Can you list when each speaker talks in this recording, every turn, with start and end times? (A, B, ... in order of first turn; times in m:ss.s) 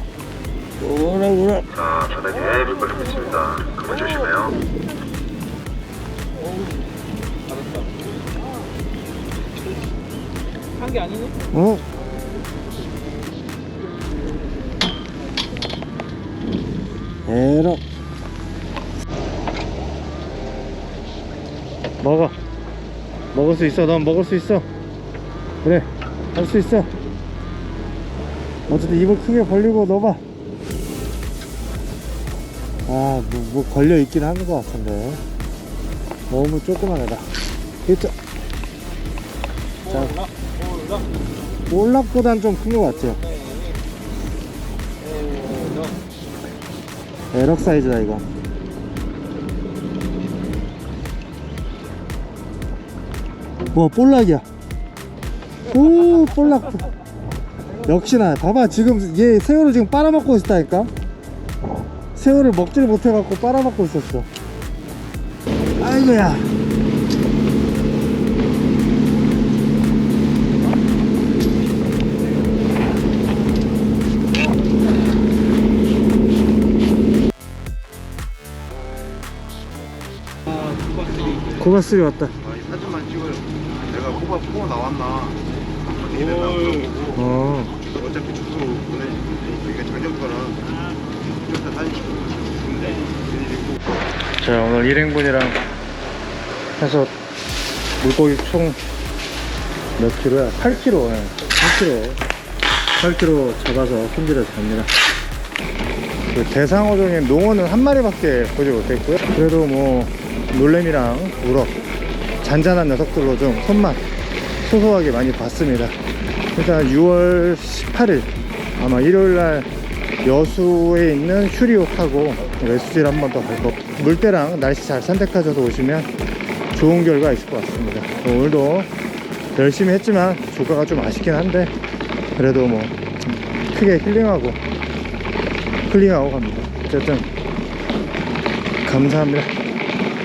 0:00.8-0:01.7 A
0:01.7-0:04.6 B
0:02.5-0:03.3 C
0:06.4-0:06.8 C
0:07.5-0:07.9 C
0:10.8-0:11.3 C
0:11.5-0:11.8 A
0:17.3-0:17.8 A
0:22.0-0:22.4 A
0:23.3-0:24.6 A
0:25.6-0:26.9 A
0:28.7-0:30.2 A
0:32.9-0:35.2 A
0:36.3-0:37.3 A
0:37.9-0:38.1 A
0:39.8-0:41.0 C
0:41.7-0:43.2 A
0:43.0-0:43.8 C
0:45.0-0:45.9 C
0:47.3-0:48.3 A
0:53.7-0:54.4 A
0:55.7-0:56.8 A
0:57.8-1:00.9 A
1:02.1-1:04.3 A
1:05.8-1:06.5 A
1:20.5-1:21.6 C
1:21.6-1:22.3 A
1:22.4-1:25.4 D
1:25.9-1:27.2 D
1:26.1-1:27.0 C
1:27.1-1:27.8 A
1:27.8-1:30.6 D
1:31.2-1:33.9 D
1:32.8-1:33.1 C
1:34.4-1:35.6 A
1:36.8-1:37.1 A
1:38.0-1:38.8 A
1:40.0-1:42.2 A
1:43.0-1:44.9 A
1:46.3-1:51.8 A
1:52.4-1:54.0 A
1:54.6-1:56.0 A
1:56.6-1:59.7 A
2:00.2-2:06.1 A
2:06.7-2:08.9 A
2:09.5-2:11.7 A
2:12.4-2:14.6 A
2:15.9-2:17.3 A
2:18.8-2:19.5 A